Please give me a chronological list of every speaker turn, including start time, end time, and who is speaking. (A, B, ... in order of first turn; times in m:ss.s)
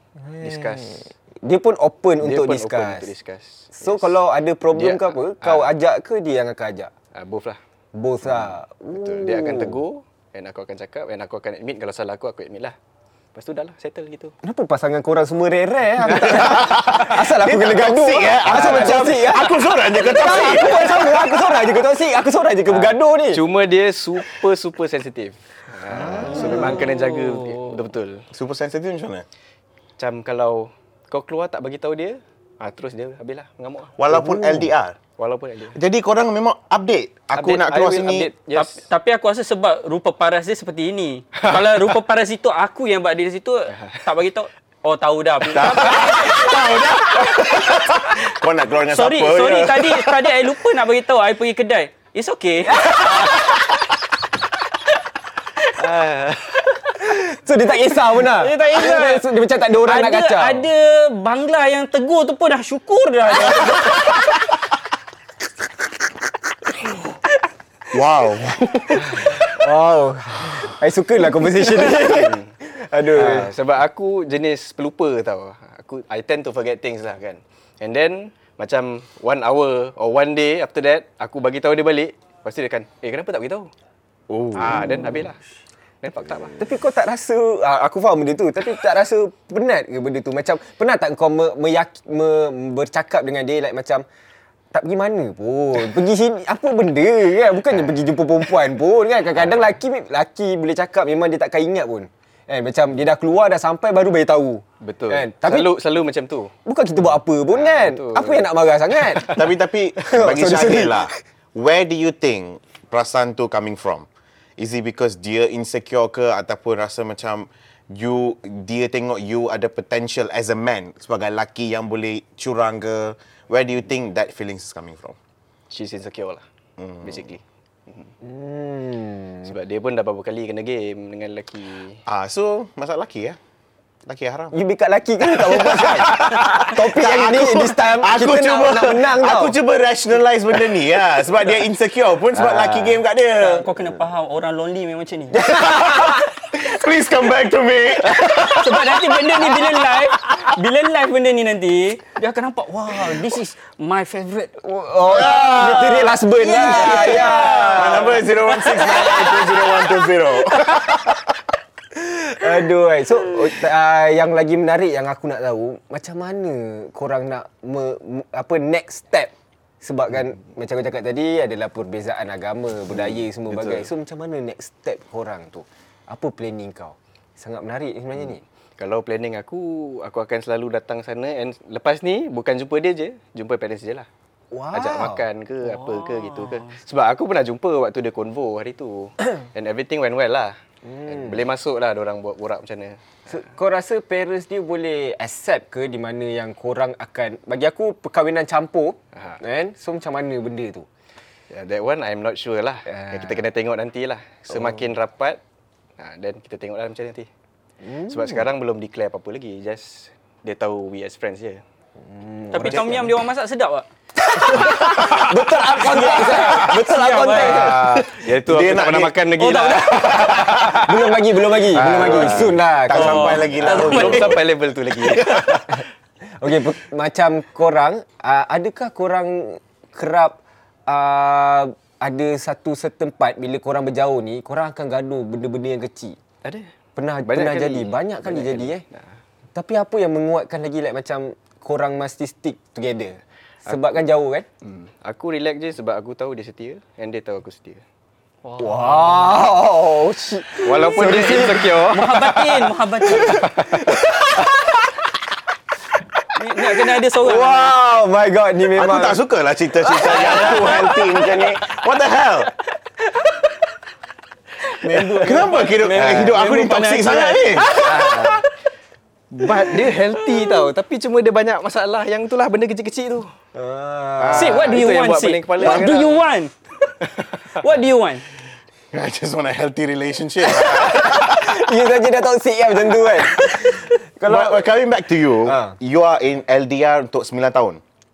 0:00.2-0:03.1 A
0:00.4-0:01.0 B
0:02.2-0:04.1 B
0:03.8-0:06.9 A
0:04.7-0:05.7 B
0:07.1-0:07.6 B
0:07.9-0:09.8 A
0:08.2-0:12.7 B
0:13.3-0:14.3 B
0:14.4-0:23.4 A
0:16.0-0:16.4 B
0:16.2-0:20.9 C
0:18.5-0:19.1 B
0:20.1-0:21.1 B
0:22.7-0:28.2 B
0:25.9-0:26.8 A
0:26.3-0:27.7 D
0:28.3-0:29.2 C
0:30.0-0:34.2 B
0:34.0-0:35.0 C
0:34.1-0:34.5 A
0:35.2-0:35.8 B
0:35.7-0:38.3 C
0:37.3-0:38.8 B
0:38.5-0:46.6 D
0:43.7-0:44.0 B
0:45.5-0:50.3 C
0:48.9-0:53.5 D
0:55.8-0:56.8 B
0:57.0-1:00.7 A
0:58.4-0:59.2 D
0:59.8-1:04.1 D
1:07.9-1:09.0 C
1:08.8-1:13.5 A
1:11.8-1:12.5 B
1:13.1-1:23.7 B
1:24.3-1:24.9 C
1:24.5-1:25.4 B
1:26.0-1:26.6 B
1:26.6-1:34.0 A
1:34.7-1:45.7 A
1:44.8-1:46.5 B
1:46.6-1:49.4 A
1:47.5-1:49.5 B
1:49.3-1:54.1 C
1:50.0-1:51.2 A
1:54.6-2:05.2 C
2:05.7-2:06.4 B
2:06.8-2:07.3 C
2:07.0-2:08.1 B
2:08.2-2:09.5 A
2:09.4-2:12.0 B
2:12.0-2:13.4 C
2:14.0-2:14.6 C
2:14.5-2:19.6 A
2:15.4-2:23.7 C
2:22.3-2:23.0 B
2:23.4-2:25.4 D
2:25.3-2:26.2 A
2:25.6-2:29.5 C
2:28.5-2:34.6 D
2:34.6-2:39.3 A
2:35.1-2:41.2 C
2:36.3-2:40.8 D
2:41.9-2:49.3 A
2:49.8-2:58.4 A
2:52.9-2:53.9 B
2:58.8-3:04.1 B
3:04.5-3:05.2 A
3:04.7-3:10.5 B
3:05.6-3:06.8 D
3:10.8-3:11.4 A
3:11.0-3:13.1 B
3:13.3-3:20.8 A
3:19.1-3:19.4 B
3:21.5-3:25.4 B
3:22.9-3:23.4 A
3:26.0-3:27.3 B
3:27.8-3:28.4 A
3:28.1-3:31.6 B
3:32.0-3:33.1 A
3:32.5-3:33.9 D
3:32.6-3:32.9 C
3:34.2-3:38.0 A
3:34.4-3:37.8 D
3:37.3-3:42.6 B
3:38.2-3:39.1 C
3:39.4-3:40.2 D
3:39.9-3:40.8 C
3:40.7-3:43.8 A
3:41.8-3:44.4 C
3:42.9-3:44.3 D
3:43.5-3:45.6 B
3:45.0-3:45.6 C
3:46.4-3:56.2 A
3:57.0-3:58.8 A
3:57.2-3:59.1 B
3:59.5-4:04.4 A
4:04.6-4:07.8 B
4:08.4-4:09.3 D
4:08.6-4:12.1 A
4:10.6-4:12.6 B
4:11.2-4:13.5 D
4:13.1-4:14.8 A
4:13.2-4:13.9 B
4:16.4-4:17.8 D
4:16.6-4:19.2 A
4:18.7-4:22.5 C
4:19.9-4:21.0 D
4:19.9-4:21.0 A
4:24.8-4:25.7 A
4:24.8-4:27.8 D
4:25.2-4:28.3 C
4:25.9-4:26.3 B
4:27.8-4:28.5 B
4:29.3-4:33.3 B
4:33.5-4:34.8 A
4:34.2-4:36.2 B
4:34.3-4:36.5 D
4:37.1-4:37.6 B
4:37.5-4:38.2 D
4:38.9-4:41.6 C
4:40.6-4:44.7 A
4:44.2-4:47.8 C
4:45.4-4:45.8 A